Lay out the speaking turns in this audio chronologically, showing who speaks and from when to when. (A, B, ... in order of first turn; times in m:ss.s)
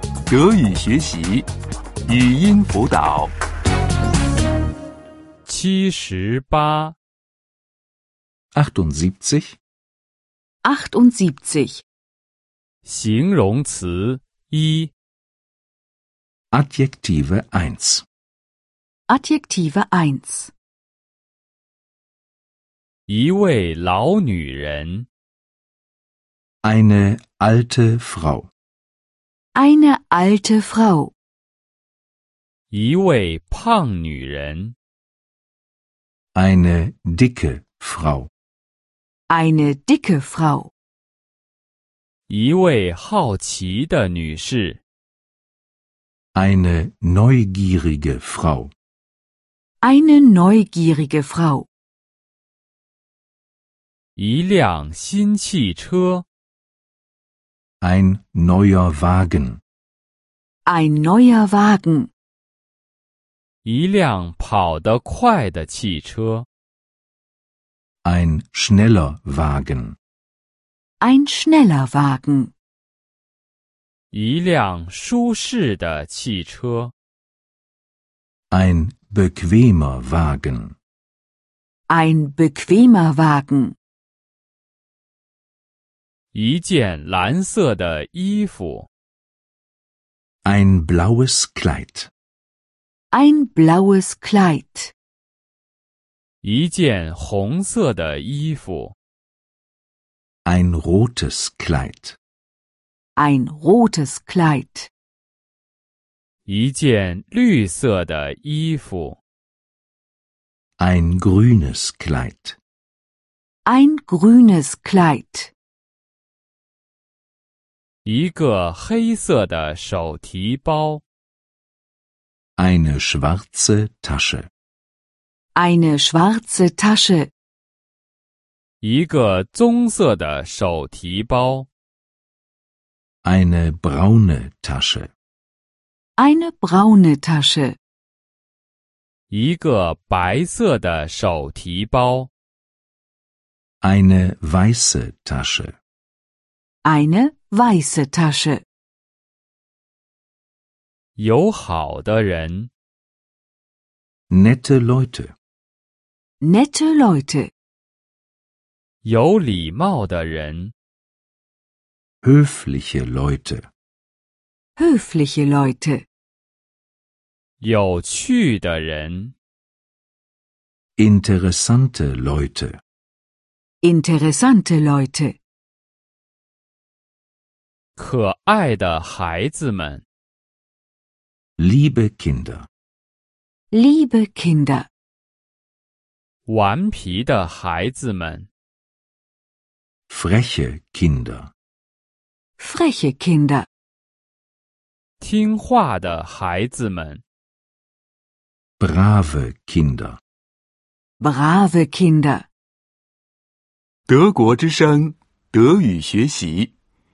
0:00.3-0:01.5 A
0:02.1-0:03.3 A
0:05.4-0:07.0 B
0:08.5-0:09.6 C
0:10.6-0:11.8 D
0:12.8-0:14.9 B
0:16.5-0:18.0 C
0:19.1-0:20.5 D
0:23.1-0:25.1 B
0:26.6-0:28.5 C
0:29.5-0:31.1 D
0:32.7-0:34.7 B
0:36.3-0:38.3 C
0:39.3-0:40.7 D
0:42.3-0:44.8 B
0:46.3-0:48.7 C
0:49.8-0:51.7 D
0:54.2-0:56.2 B
0:57.8-0:59.6 C
1:00.6-1:02.1 D
1:03.6-1:06.4 B
1:08.0-1:10.0 C
1:11.0-1:12.5 D
1:14.1-1:16.9 B
1:18.5-1:20.7 C
1:21.9-1:23.8 D
1:26.3-1:28.9 B
1:30.4-1:32.1 C
1:33.1-1:34.9 D
1:36.4-1:38.9 B
1:40.4-1:42.2 C
1:43.2-1:44.9 D
1:46.4-1:49.2 B
1:50.8-1:52.6 C
1:53.6-1:55.5 D
1:58.0-2:01.0 B
2:02.6-2:04.5 C
2:05.6-2:07.3 D
2:08.8-2:11.7 B
2:13.2-2:15.1 C
2:16.2-2:17.8 D
2:19.3-2:22.3 B
2:23.8-2:25.8 C
2:26.8-2:28.6 D
2:31.2-2:32.7 B
2:34.3-2:35.3 C
2:36.4-2:37.5 D
2:39.0-2:40.7 B
2:42.2-2:43.7 C
2:44.8-2:46.0 D
2:47.6-2:49.3 B
2:51.0-2:52.8 C
2:53.8-2:55.4 D
2:58.0-3:00.0 B
3:01.6-3:02.7 C
3:03.7-3:04.9 D
3:06.4-3:08.5 B
3:10.1-3:11.5 C
3:12.6-3:13.7 D
3:15.2-3:17.2 B
3:18.8-3:20.2 C
3:21.2-3:22.4 D
3:24.1-3:26.7 A